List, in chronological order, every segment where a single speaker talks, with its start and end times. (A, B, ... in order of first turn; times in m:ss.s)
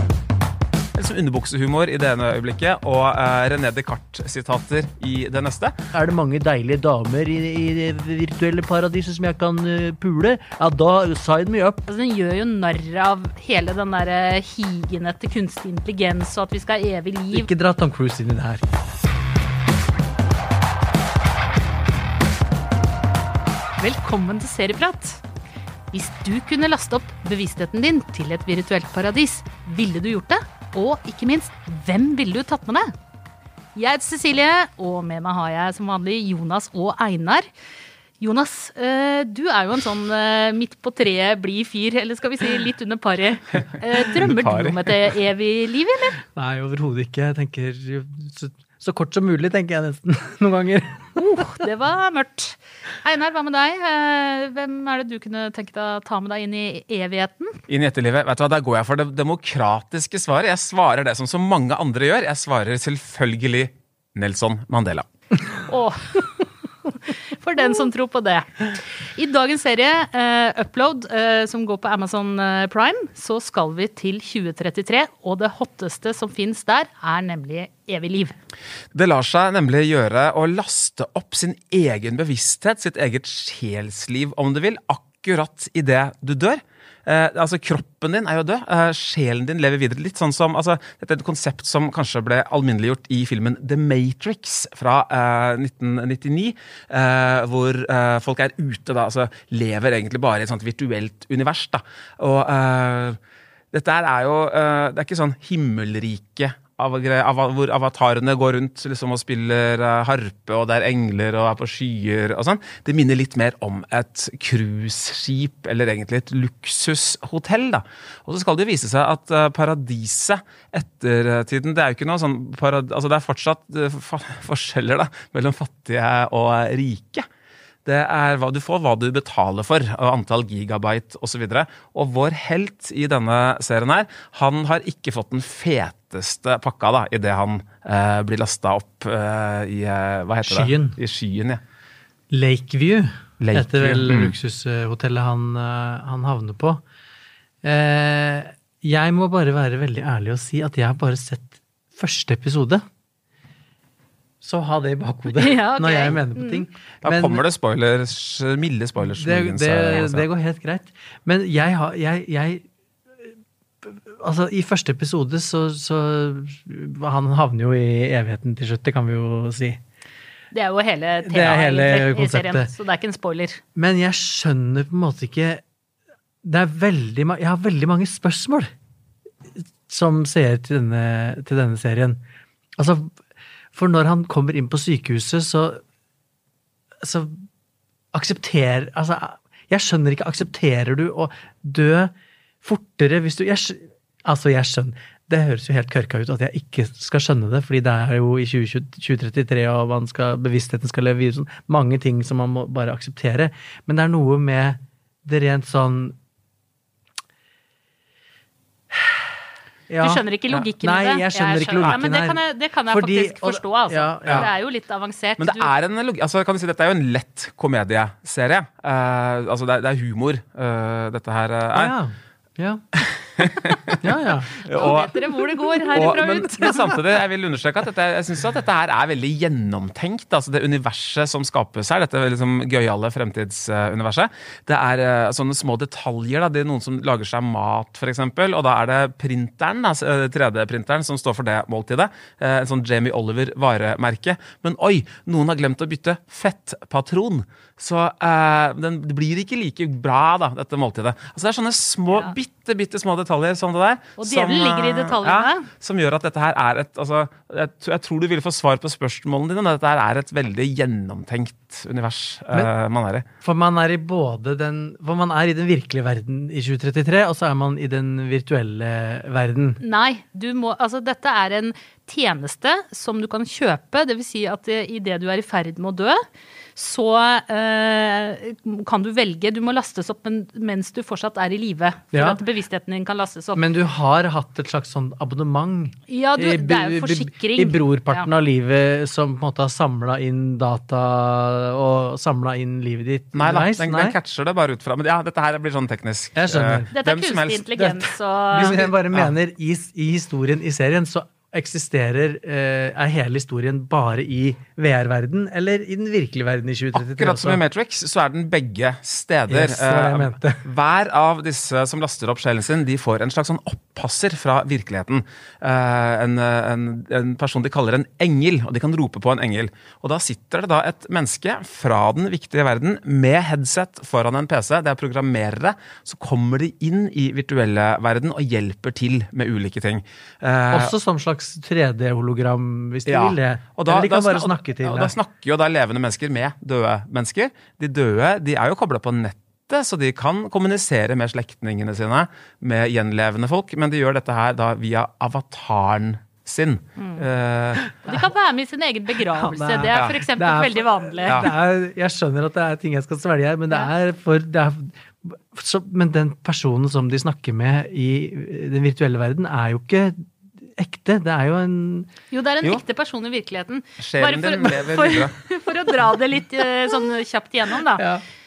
0:01.0-0:05.7 A
0:05.9-0:11.8 B
0:11.9-0:17.5 C
0:17.3-0:18.6 B
0:23.8-0:25.2 C
0:25.9-0:32.9 C
0:33.8-0:37.5 C
0:38.2-0:46.2 C
0:44.1-0:44.9 A
0:46.3-0:51.4 B
0:51.2-0:57.6 C
0:57.7-1:05.1 A
1:05.7-1:06.4 C
1:07.4-1:18.4 C
1:18.9-1:43.2 A
1:43.7-2:07.3 A
2:07.8-2:21.6 A
2:20.4-2:21.0 B
2:22.3-2:26.8 B
2:23.4-2:24.3 A
2:27.6-2:32.8 B
2:34.4-2:37.4 B
2:35.3-2:36.6 C
2:37.0-2:40.3 A
2:39.0-2:42.6 B
2:43.8-2:49.8 B
2:50.5-2:53.6 C
2:51.2-2:52.7 B
2:53.8-2:55.6 B
2:56.4-2:58.7 B
2:59.9-3:02.2 B
3:02.8-3:03.2 B
3:03.7-3:05.8 B
3:07.0-3:07.4 B
3:08.1-3:26.2 B
3:28.9-3:29.3 B
3:29.9-3:30.2 B
3:30.0-3:35.7 C
3:30.8-3:34.5 B
3:35.4-3:41.9 A
3:41.8-3:42.8 B
3:43.0-3:44.0 A
3:44.0-3:45.0 B
3:44.6-3:45.2 A
3:44.7-3:47.0 C
3:45.9-3:46.9 B
3:45.9-4:23.2 A
4:14.2-4:15.7 C
4:23.4-4:29.8 B
4:29.8-4:36.2 C
4:36.8-4:43.6 C
4:42.1-4:42.4 B
4:43.6-4:54.2 B
4:46.1-4:48.3 C
4:53.3-4:57.7 A
4:56.4-4:56.9 B
4:57.0-4:58.8 C
4:57.8-5:07.6 B
4:58.5-4:59.3 A
5:07.0-5:30.9 A
5:09.5-5:10.6 B
5:30.7-5:35.2 B
5:33.1-5:47.9 A
5:47.0-5:47.2 C
5:48.0-5:51.5 C
5:49.3-6:02.1 B
5:49.9-5:50.2 A
5:51.3-5:51.5 A
6:02.3-6:08.0 C
6:04.0-6:05.4 A
6:08.0-6:08.2 B